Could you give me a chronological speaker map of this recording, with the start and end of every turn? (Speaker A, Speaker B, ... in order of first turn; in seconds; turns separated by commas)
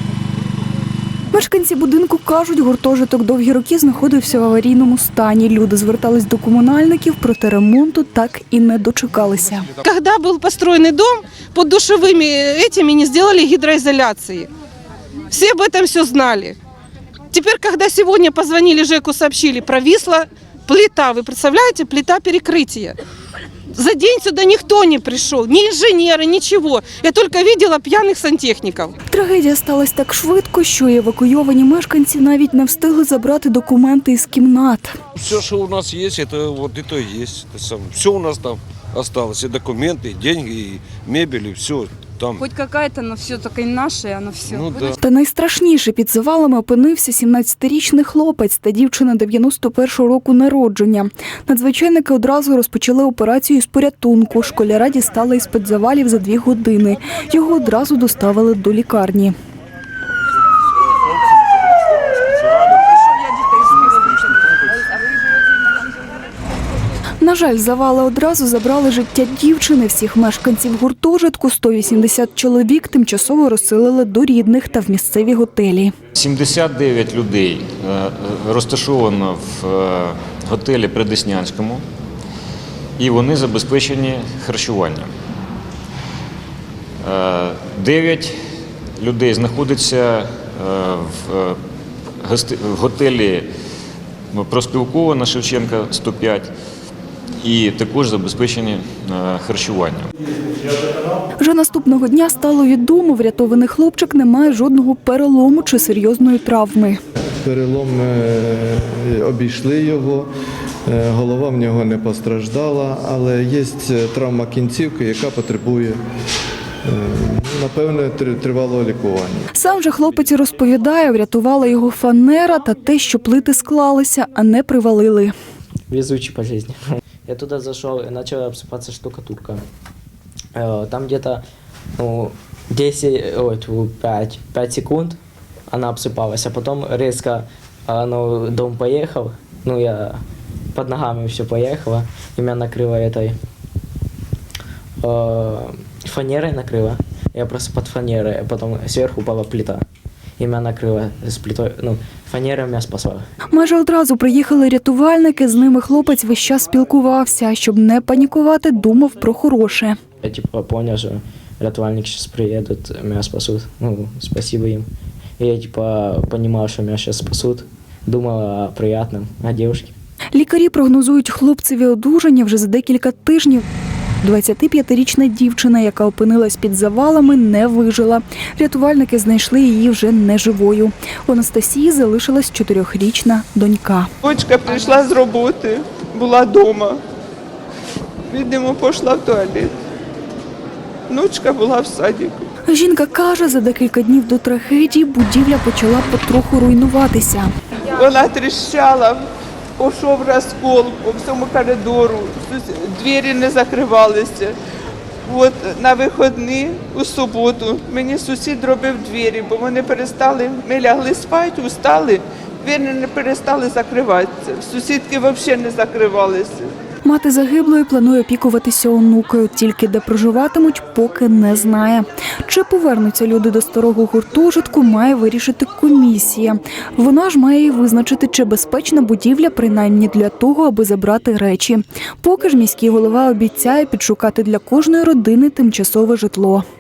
Speaker A: 1.3-9.7, Speaker B: 9.8-14.5, Speaker B: 15.3-16.6, Speaker B: 17.3-23.0, Speaker B: 23.7-28.9, Speaker A: 29.1-35.0, Speaker C: 35.1-42.5, Speaker D: 42.4-44.7, Speaker C: 44.4-45.0, Speaker A: 45.0-59.3, Speaker A: 67.2-75.9, Speaker E: 76.1-81.8, Speaker E: 83.0-85.1, Speaker E: 87.0-88.3, Speaker E: 89.0-91.6, Speaker E: 92.2-93.5, Speaker E: 94.3-96.5, Speaker E: 97.4-100.1, Speaker A: 101.4-107.0, Speaker F: 107.4-110.3, Speaker F: 110.8-116.0, Speaker F: 116.8-119.5, Speaker A: 119.5-125.3, Speaker G: 125.9-129.6, Speaker G: 130.5-131.4, Speaker G: 132.0-135.2, Speaker G: 135.7-140.2, Speaker G: 140.7-143.4, Speaker G: 145.0-149.8, Speaker G: 150.4-153.2, Speaker A: 153.5-159.9, Speaker G: 160.2-164.9, Speaker G: 165.4-169.9, Speaker A: 170.3-173.6, Speaker A: 174.2-184.1, Speaker H: 184.2-187.0, Speaker H: 188.3-189.7, Speaker H: 191.1-192.4, Speaker A: 192.7-197.5, Speaker H: 197.9-204.6, Speaker H: 205.2-216.7, Speaker A: 217.0-236.6